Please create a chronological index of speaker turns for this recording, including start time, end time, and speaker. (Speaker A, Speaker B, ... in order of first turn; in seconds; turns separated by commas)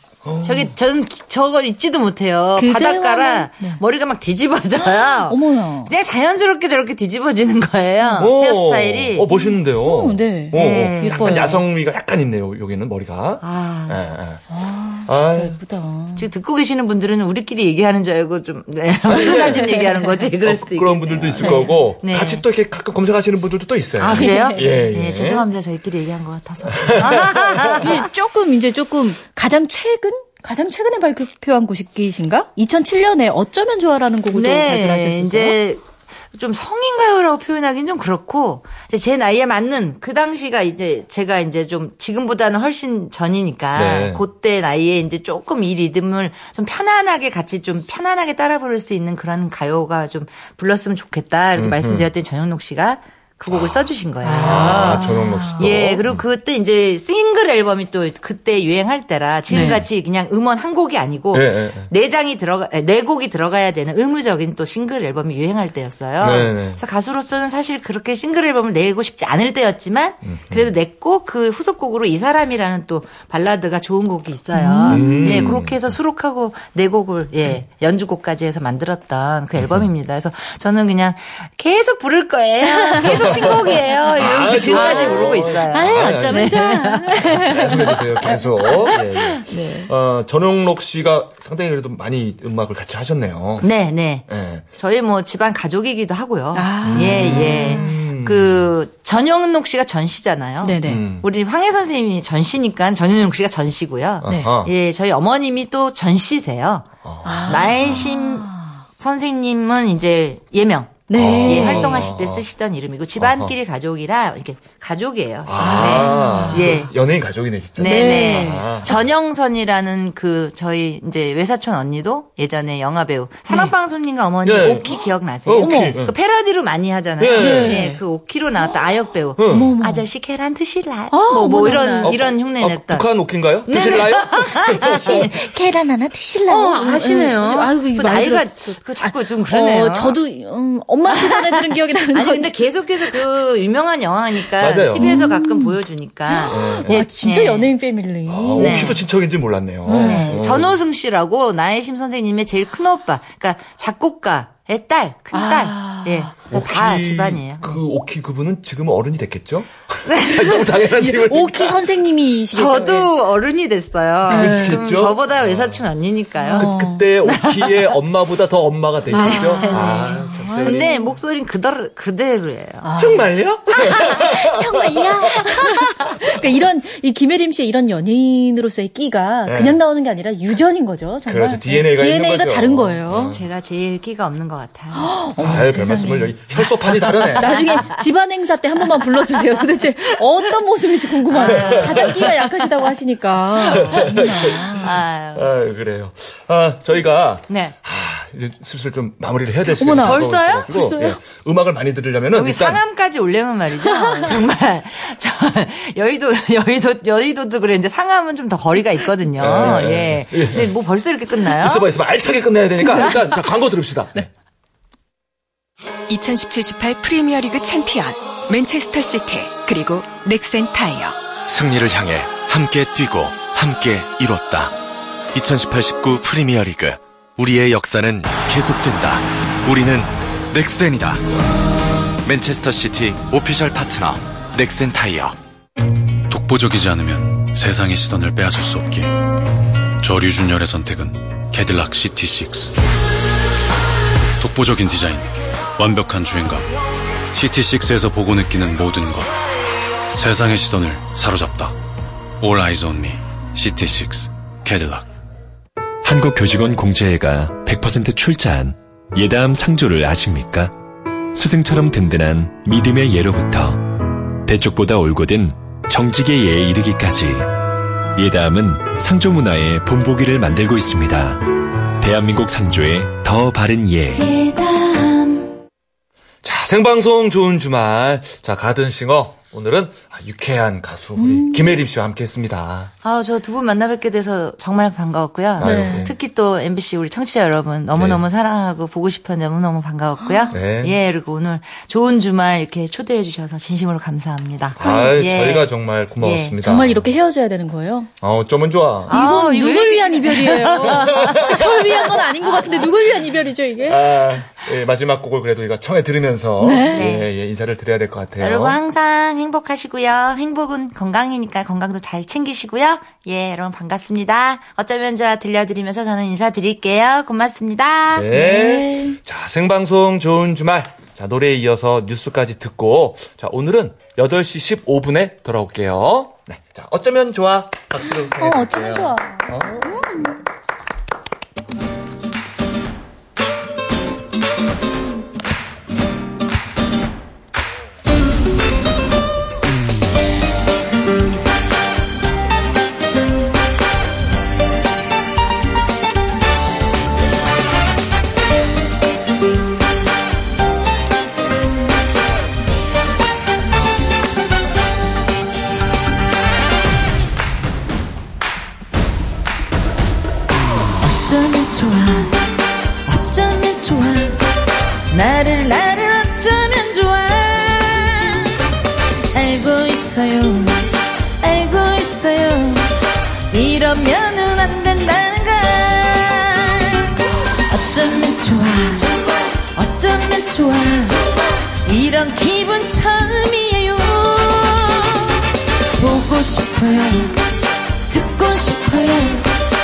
Speaker A: 0.2-0.7, Speaker B: 0.4-9.3, Speaker C: 2.6-3.8, Speaker C: 5.3-5.9, Speaker A: 8.2-14.4, Speaker C: 9.3-11.6, Speaker B: 10.5-11.5, Speaker B: 13.4-14.0, Speaker C: 14.5-16.3, Speaker A: 15.0-15.6, Speaker B: 16.1-22.4, Speaker A: 19.1-19.7, Speaker C: 19.2-20.1, Speaker A: 20.4-25.4, Speaker C: 21.4-21.7, Speaker B: 24.0-28.1, Speaker C: 24.2-24.6, Speaker A: 26.8-27.9, Speaker C: 27.8-35.6, Speaker B: 34.3-87.7, Speaker A: 43.7-44.2, Speaker A: 51.5-52.1, Speaker A: 53.5-53.8, Speaker C: 54.2-55.7, Speaker A: 54.4-56.2, Speaker C: 59.5-59.8, Speaker A: 61.3-61.9, Speaker A: 66.2-66.8, Speaker A: 70.3-70.7, Speaker C: 74.5-75.4, Speaker A: 74.9-75.8, Speaker A: 79.6-79.9, Speaker C: 82.6-88.7, Speaker A: 83.0-86.6, Speaker A: 87.1-93.7, Speaker B: 88.9-89.8, Speaker C: 89.5-89.8, Speaker B: 93.6-106.9, Speaker A: 94.3-94.6, Speaker C: 96.5-97.9, Speaker A: 96.8-98.7, Speaker C: 100.6-101.0, Speaker A: 100.8-101.2, Speaker A: 104.2-104.7, Speaker A: 107.0-108.0, Speaker C: 107.2-108.5, Speaker B: 107.5-116.9, Speaker C: 111.1-112.1, Speaker A: 111.1-112.4, Speaker A: 113.2-113.5, Speaker A: 115.5-119.0, Speaker C: 115.6-116.8, Speaker B: 117.8-133.1, Speaker C: 117.8-119.0, Speaker A: 124.4-126.1, Speaker C: 125.6-126.0, Speaker A: 127.2-127.8, Speaker C: 127.3-128.0, Speaker A: 129.4-129.7, Speaker C: 129.5-130.0, Speaker C: 131.1-132.1, Speaker A: 132.0-135.3, Speaker B: 133.7-135.4, Speaker C: 134.8-142.5, Speaker B: 136.5-140.2, Speaker B: 141.1-147.7, Speaker A: 144.6-145.2, Speaker C: 145.0-145.8, Speaker C: 146.3-149.0, Speaker A: 146.5-147.1, Speaker A: 148.3-150.7, Speaker B: 148.6-149.0, Speaker C: 149.8-150.3, Speaker B: 149.9-157.8, Speaker C: 155.3-156.3, Speaker A: 156.5-161.9, Speaker B: 160.1-160.6, Speaker C: 161.0-163.1, Speaker B: 162.5-166.7, Speaker C: 164.3-164.8, Speaker A: 164.3-165.8, Speaker C: 166.4-167.1, Speaker A: 166.5-170.9, Speaker B: 167.2-168.0, Speaker B: 169.1-172.9, Speaker C: 169.1-171.1, Speaker C: 172.8-173.3, Speaker A: 173.0-176.3, Speaker B: 173.9-174.1, Speaker C: 174.0-183.3, Speaker A: 179.4-179.8, Speaker A: 181.2-183.4, Speaker B: 183.1-186.0, Speaker C: 184.9-186.3, Speaker A: 185.4-187.7, Speaker B: 187.1-188.0, Speaker C: 187.3-194.8, Speaker B: 191.3-192.6, Speaker A: 191.3-192.3, Speaker A: 193.6-202.8, Speaker B: 193.7-195.5, Speaker B: 197.5-197.7, Speaker C: 199.8-200.2, Speaker B: 199.8-201.2, Speaker B: 202.3-211.9, Speaker A: 209.4-210.7, Speaker A: 211.5-214.3, Speaker D: 216.1-221.2, Speaker E: 221.5-224.8, Speaker E: 225.3-231.2, Speaker E: 232.2-235.3, Speaker F: 236.3-239.2, Speaker F: 240.0-242.7, Speaker F: 244.4-246.7, Speaker F: 247.3-249.4, Speaker F: 250.1-251.8, Speaker F: 252.4-255.1, Speaker G: 256.0-274.3, Speaker B: 274.2-275.5, Speaker A: 276.4-282.9, Speaker C: 281.2-281.8, Speaker B: 283.0-296.6, Speaker A: 285.6-286.1, Speaker C: 285.6-286.1, Speaker A: 287.9-288.2, Speaker C: 290.2-290.5, Speaker A: 290.5-290.9, Speaker A: 294.8-297.1, Speaker C: 294.8-295.1, Speaker C: 296.6-298.1, Speaker A: 298.2-299.2, Speaker B: 299.1-302.9, Speaker C: 299.1-304.0, Speaker A: 300.9-301.8, Speaker A: 303.8-308.8, Speaker C: 306.6-307.1, Speaker B: 306.9-307.3, Speaker B: 308.4-318.3, Speaker A: 318.1-330.3, Speaker C: 318.3-319.2, Speaker C: 328.4-330.2, Speaker B: 360.9-362.4, Speaker B: 363.1-364.4, Speaker B: 365.1-368.6, Speaker B: 369.3-379.1, Speaker B: 379.7-385.4, Speaker B: 385.9-387.4, Speaker B: 388.1-389.6